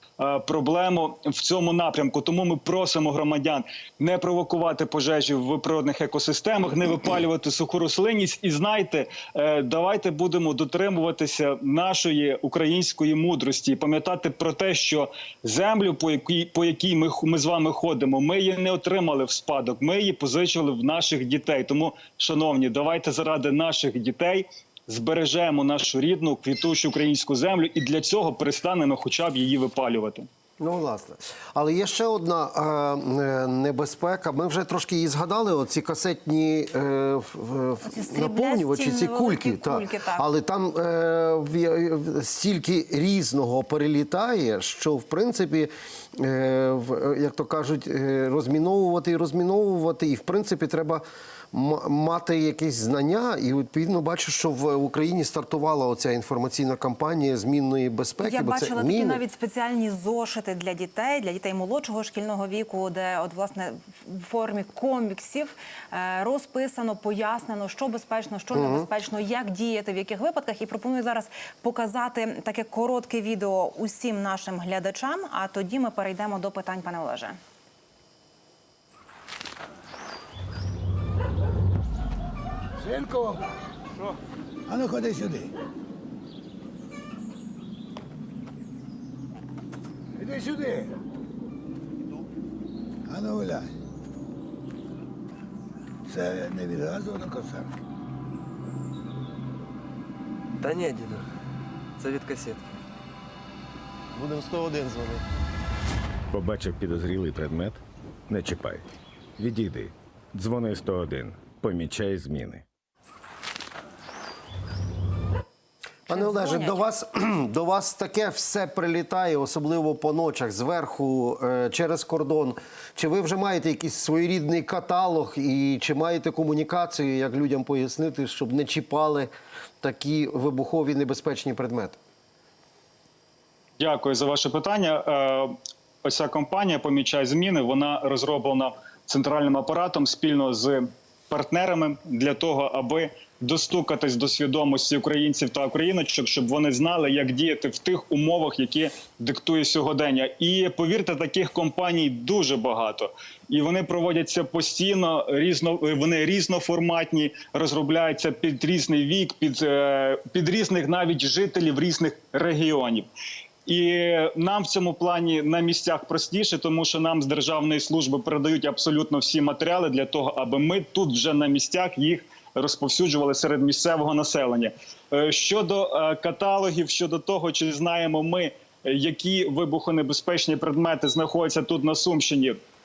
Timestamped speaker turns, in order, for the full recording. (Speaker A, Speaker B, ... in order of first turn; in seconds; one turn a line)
Speaker A: 0.2-30.2
Speaker B: 30.6-59.2
Speaker C: 37.8-40.3
Speaker C: 58.2-77.4
Speaker B: 68.5-68.9
Speaker D: 82.8-83.5
Speaker D: 84.7-85.5
Speaker D: 90.2-90.9
Speaker D: 93.0-93.7
Speaker D: 96.1-97.8
Speaker E: 100.6-101.2
Speaker E: 102.0-102.7
Speaker E: 104.2-105.2
Speaker B: 104.3-105.0
Speaker F: 106.3-108.8
Speaker F: 109.4-112.6
Speaker C: 116.1-116.8
Speaker B: 116.1-129.3
Speaker B: 129.8-132.0
Speaker A: 133.8-135.5
Speaker A: 136.0-163.1
Speaker A: 163.7-182.6